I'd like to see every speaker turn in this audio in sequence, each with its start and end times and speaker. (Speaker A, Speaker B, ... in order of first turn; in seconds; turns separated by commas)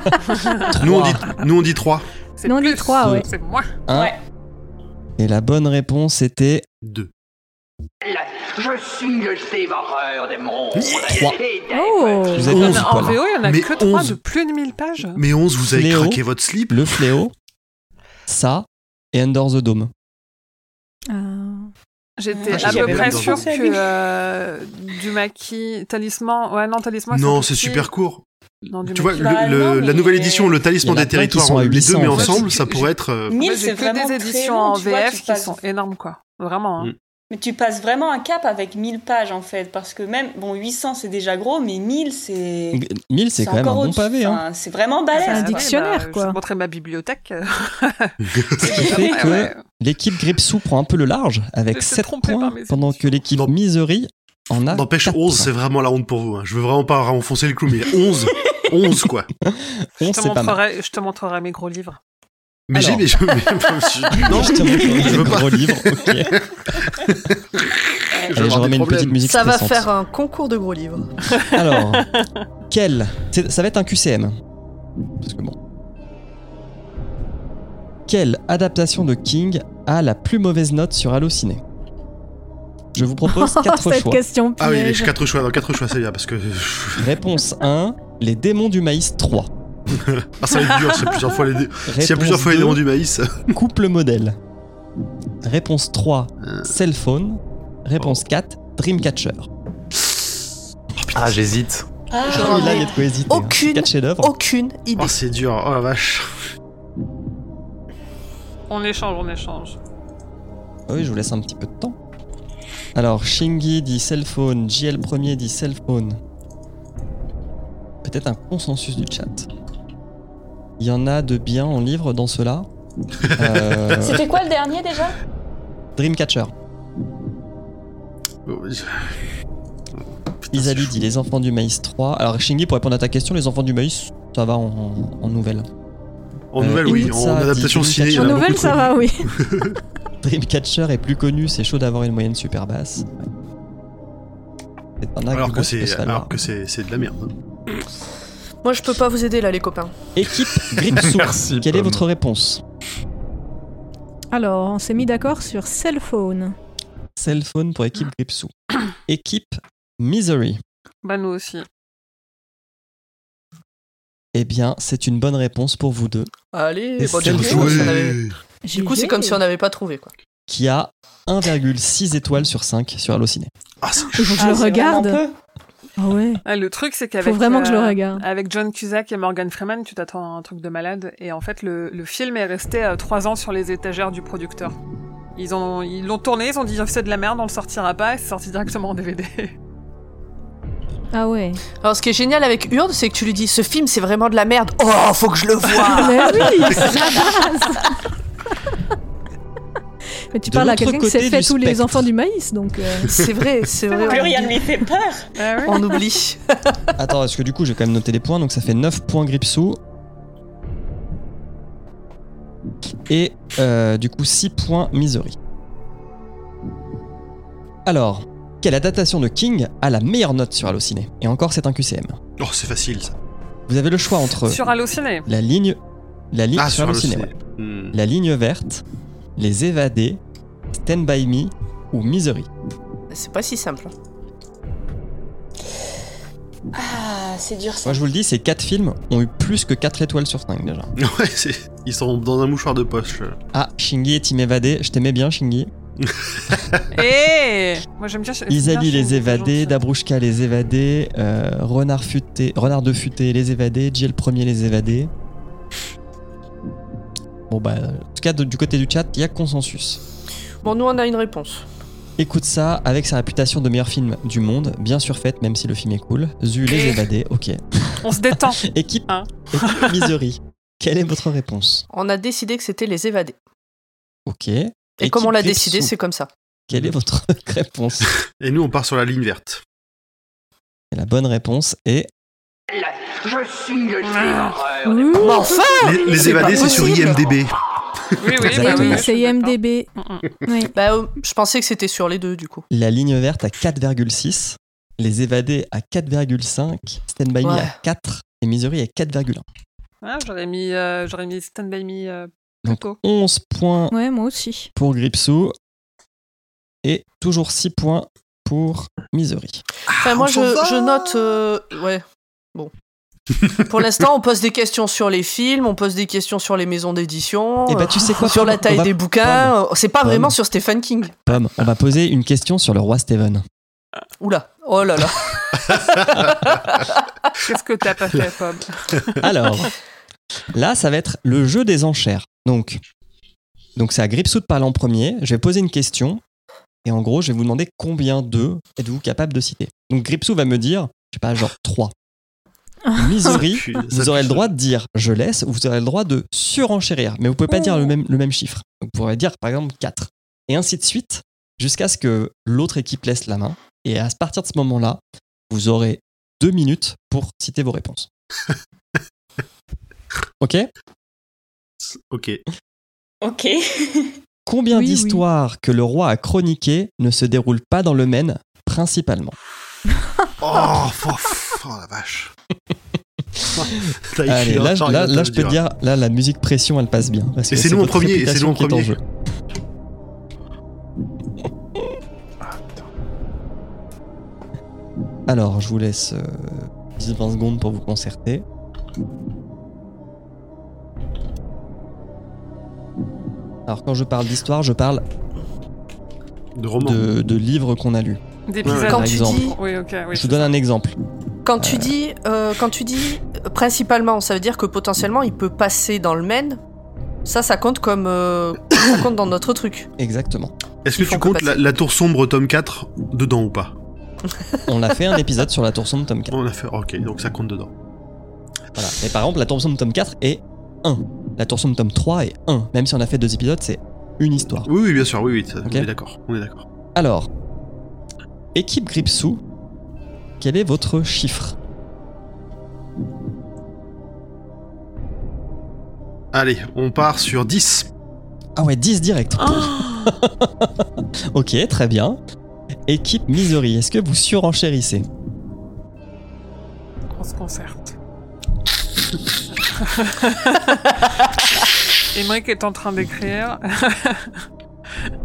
Speaker A: 0.3-0.7, Speaker B: 0.8-1.2, Speaker C: 0.8-2.0, Speaker A: 2.4-3.7, Speaker D: 2.4-3.3, Speaker B: 3.9-4.2, Speaker E: 3.9-4.2, Speaker B: 5.2-6.7, Speaker C: 6.8-7.1, Speaker F: 8.1-11.7, Speaker B: 11.0-11.4, Speaker D: 11.7-12.7, Speaker A: 11.7-15.2, Speaker B: 12.3-13.2, Speaker C: 13.4-14.2, Speaker C: 15.2-16.9, Speaker B: 15.7-17.3, Speaker B: 18.3-19.9, Speaker D: 21.1-21.7, Speaker A: 22.2-27.9, Speaker E: 22.3-23.9, Speaker C: 22.5-23.4, Speaker C: 27.1-28.2, Speaker A: 28.7-29.3, Speaker C: 28.9-33.4, Speaker E: 29.1-30.6, Speaker B: 30.8-32.5, Speaker A: 32.1-36.9, Speaker E: 33.3-35.6, Speaker E: 37.3-42.8, Speaker B: 42.7-44.4, Speaker E: 43.4-45.7, Speaker A: 45.1-49.6, Speaker D: 45.2-46.4, Speaker C: 48.3-48.6, Speaker E: 48.6-49.4, Speaker B: 48.7-55.5, Speaker A: 51.7-53.1, Speaker C: 54.7-59.3, Speaker B: 59.4-60.6, Speaker A: 60.0-62.0, Speaker C: 62.7-66.4, Speaker B: 62.7-63.1, Speaker B: 64.2-66.4, Speaker C: 67.0-67.3, Speaker C: 68.1-69.2, Speaker B: 68.3-69.9, Speaker G: 69.2-71.1, Speaker A: 71.4-72.3, Speaker B: 71.5-72.1, Speaker B: 72.7-74.4, Speaker B: 75.2-75.6, Speaker B: 78.1-81.6, Speaker B: 82.9-84.2, Speaker D: 83.2-85.2, Speaker C: 84.6-87.1, Speaker B: 87.0-89.5, Speaker C: 90.0-93.5, Speaker A: 90.5-91.0, Speaker B: 91.9-92.8, Speaker B: 93.5-94.4, Speaker B: 95.4-99.5, Speaker H: 101.1-101.8, Speaker E: 102.1-103.1, Speaker B: 102.3-104.3, Speaker G: 102.3-105.2, Speaker C: 105.0-106.3, Speaker A: 108.7-109.8, Speaker B: 110.9-112.0, Speaker B: 113.0-116.2, Speaker B: 118.0-119.5, Speaker B: 120.8-122.7, Speaker B: 123.4-124.2, Speaker E: 124.0-125.2, Speaker B: 126.0-126.5, Speaker C: 128.5-129.1, Speaker C: 130.5-130.9, Speaker B: 130.5-135.7, Speaker C: 136.5-139.7, Speaker B: 136.6-138.7, Speaker D: 138.1-139.4, Speaker B: 140.2-143.3, Speaker B: 145.0-146.3, Speaker C: 145.3-147.3, Speaker G: 148.6-149.9, Speaker B: 150.2-152.6, Speaker H: 151.0-152.0, Speaker D: 154.3-156.6, Speaker B: 157.2-160.6, Speaker A: 161.0-161.7, Speaker B: 164.3-166.3, Speaker G: 166.5-168.2, Speaker B: 167.0-168.0, Speaker C: 167.2-168.4, Speaker D: 168.7-169.4, Speaker G: 168.7-170.1, Speaker B: 170.5-173.5, Speaker C: 173.8-174.4, Speaker D: 174.1-175.2, Speaker E: 174.4-175.4, Speaker D: 176.0-176.4, Speaker A: 176.4-184.8, Speaker D: 177.2-178.2, Speaker A: 185.4-189.5, Speaker D: 191.1-191.6, Speaker G: 191.8-197.0, Speaker A: 195.8-196.8, Speaker D: 195.8-197.9, Speaker D: 200.3-203.2, Speaker B: 200.5-202.1, Speaker G: 203.1-204.8, Speaker E: 204.0-205.3, Speaker A: 205.4-205.9, Speaker G: 205.6-206.8, Speaker B: 207.0-209.8, Speaker B: 213.1-215.4, Speaker B: 217.9-222.2, Speaker C: 222.4-223.1, Speaker B: 223.7-224.6, Speaker A: 224.4-225.3, Speaker B: 225.3-225.8, Speaker B: 226.3-227.3, Speaker C: 226.6-227.9, Speaker B: 227.9-228.8, Speaker B: 229.4-230.2, Speaker B: 230.8-232.5, Speaker G: 233.1-233.9, Speaker E: 236.7-238.1, Speaker B: 237.8-240.9, Speaker C: 241.0-243.4, Speaker B: 243.5-245.7, Speaker C: 246.0-246.8, Speaker A: 246.9-249.8, Speaker B: 248.5-255.1, Speaker B: 257.5-260.0, Speaker G: 260.6-261.6, Speaker B: 262.2-271.9, Speaker A: 266.7-267.0, Speaker A: 268.0-270.1, Speaker G: 271.9-273.4, Speaker B: 274.3-275.9, Speaker G: 275.0-276.3, Speaker B: 276.7-278.1, Speaker C: 278.4-279.6, Speaker B: 280.9-282.1, Speaker F: 282.8-284.9, Speaker A: 284.0-284.6, Speaker D: 284.9-285.7, Speaker G: 285.2-287.2, Speaker C: 285.8-287.5, Speaker A: 288.2-290.3, Speaker D: 288.4-289.9, Speaker B: 288.4-289.1, Speaker D: 290.4-290.7, Speaker G: 290.7-292.7, Speaker B: 292.7-299.4, Speaker G: 297.4-297.8, Speaker A: 300.0-303.0, Speaker B: 302.6-303.9, Speaker D: 303.9-304.7, Speaker B: 304.8-305.6, Speaker B: 306.8-309.6, Speaker C: 310.0-311.1, Speaker G: 310.0-312.0, Speaker G: 313.7-321.2, Speaker B: 317.7-320.3, Speaker B: 321.3-323.4, Speaker G: 324.2-327.0, Speaker A: 327.4-329.2, Speaker B: 329.2-329.7, Speaker B: 330.5-332.8, Speaker B: 333.8-336.2, Speaker B: 336.8-341.9, Speaker D: 342.9-343.4, Speaker B: 343.0-358.1, Speaker C: 343.3-344.5, Speaker D: 347.5-347.9, Speaker B: 360.4-360.7, Speaker C: 361.9-362.4, Speaker E: 363.2-364.2, Speaker B: 364.5-369.4, Speaker D: 364.7-365.2, Speaker C: 370.4-372.3, Speaker B: 373.4-379.0, Speaker C: 373.5-375.6, Speaker C: 377.5-379.0, Speaker H: 382.4-382.9, Speaker B: 385.3-388.4, Speaker B: 393.7-395.0, Speaker C: 396.6-397.0, Speaker B: 396.8-399.6, Speaker A: 398.5-400.6, Speaker C: 398.7-398.9, Speaker G: 398.7-399.6, Speaker B: 400.1-401.0, Speaker G: 401.4-406.6, Speaker B: 401.6-402.0, Speaker G: 407.3-409.9, Speaker B: 410.0-410.5, Speaker C: 410.9-413.8, Speaker G: 410.9-411.6, Speaker B: 414.7-416.4, Speaker C: 416.3-417.7, Speaker B: 418.8-424.7, Speaker C: 424.6-426.6, Speaker B: 426.9-427.3, Speaker B: 428.6-429.4, Speaker B: 430.4-431.6, Speaker C: 436.3-437.9, Speaker B: 438.6-442.2, Speaker A: 439.4-440.1, Speaker B: 442.9-445.1, Speaker A: 447.2-447.9, Speaker A: 449.6-450.8, Speaker A: 452.1-454.4